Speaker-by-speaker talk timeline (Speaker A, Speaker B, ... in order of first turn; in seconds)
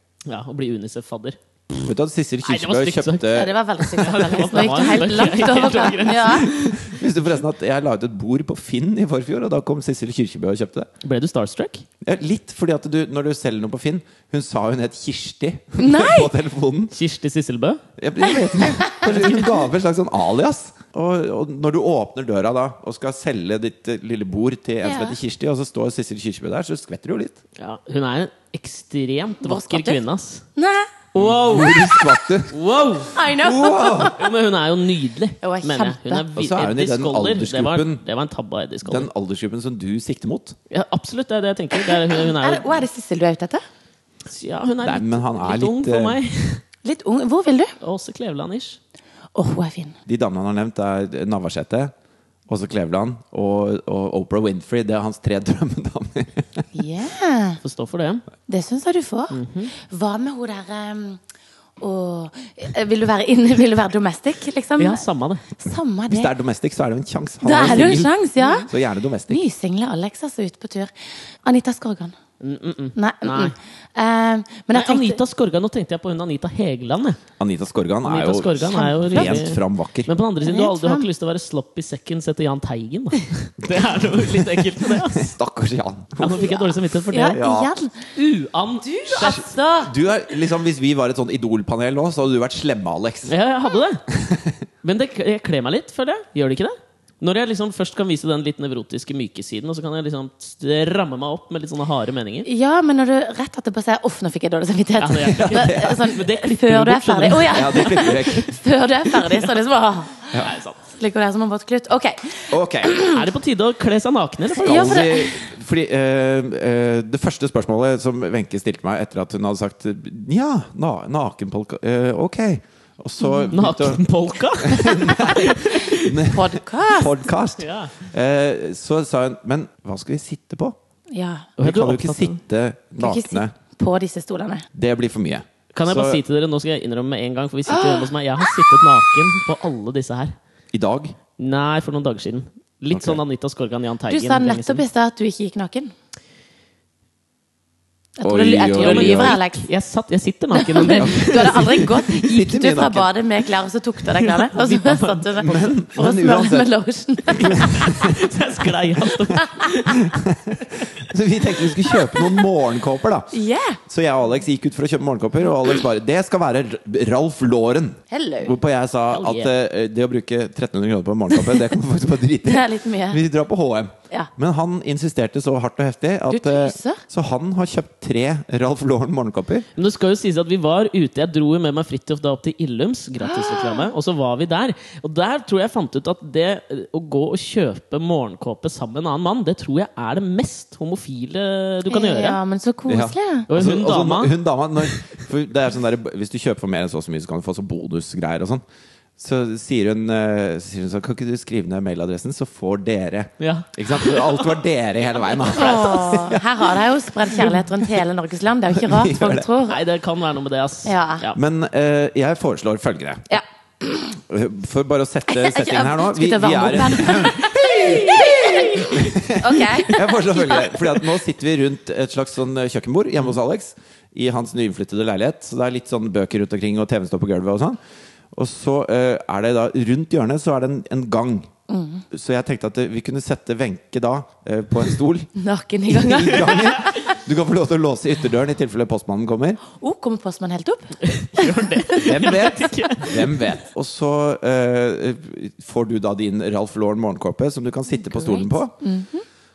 Speaker A: 0.3-1.4, 2.4-7.0, 11.0-11.8, 16.9-17.8, 19.0-19.5, 27.6-30.4, 31.1-33.1, 34.1-39.1, 40.7-42.8, 44.2-46.6, 47.8-48.8, 57.6-58.2, 59.3-59.7, 64.8-65.4, 72.4-73.5, 74.7-77.2, 78.0-85.3, 86.2-87.4, 88.1-89.5, 93.3-94.0, 94.8-102.5, 105.0-108.4, 109.2-109.5, 110.4-110.8, 113.1-115.1, 123.5-126.2, 127.6-127.9, 131.6-132.3, 135.7-140.3, 141.4-144.8, 148.6-151.9, 154.1-155.6, 157.4-160.2, 169.1-169.5, 179.8-192.4, 193.5-195.0, 203.4-204.6, 205.3-206.0, 209.7-211.4, 241.0-243.5
Speaker B: 1.7-4.2, 6.1-10.9, 12.0-16.9, 18.0-27.4, 31.1-32.5, 33.3-34.2, 36.3-38.0, 38.8-40.6, 44.8-46.2, 50.1-51.9, 52.5-56.7, 66.1-68.1, 68.7-69.4, 77.4-80.1, 83.7-86.5, 87.3-87.7, 89.2-93.4, 94.1-94.6, 105.4-106.0, 107.5-108.5, 112.5-112.9, 114.6-124.0, 124.6-130.8, 131.6-133.5, 134.7-136.2, 140.7-141.2, 142.9-143.2, 148.2-149.4, 151.0-153.1, 155.4-156.7, 157.4-158.2, 159.9-179.6, 192.9-198.6, 199.2-206.6, 208.7-209.4, 211.3-213.3, 214.3-227.8, 228.3-231.5, 232.1-235.3, 235.9-239.6, 242.0-248.7
Speaker C: 3.3-6.5, 15.8-16.3, 18.3-18.9, 24.8-25.2, 29.4-30.0, 30.6-30.9, 33.1-34.3, 35.4-36.2, 42.1-43.6, 46.8-47.7, 49.3-50.0, 56.7-57.6, 58.5-61.2, 61.8-66.3, 67.4-68.7, 69.3-70.9, 71.4-72.1, 73.0-75.2, 78.7-79.4, 80.4-81.0, 86.3-88.1, 88.8-89.9, 102.4-113.3, 114.6-115.4, 123.2-123.5, 126.3-127.2, 131.1-131.5, 133.0-134.7, 137.7-138.7, 144.1-145.9, 148.2-149.7, 150.5-158.1, 159.3-159.7, 163.3-163.8, 168.1-168.5, 172.4-173.2, 176.3-177.0, 183.2-183.9, 191.8-193.5, 205.5-209.8, 210.8-211.2, 213.3-214.1, 215.3-221.0, 231.7-232.0, 235.3-237.0, 239.7-242.8, 248.1-249.2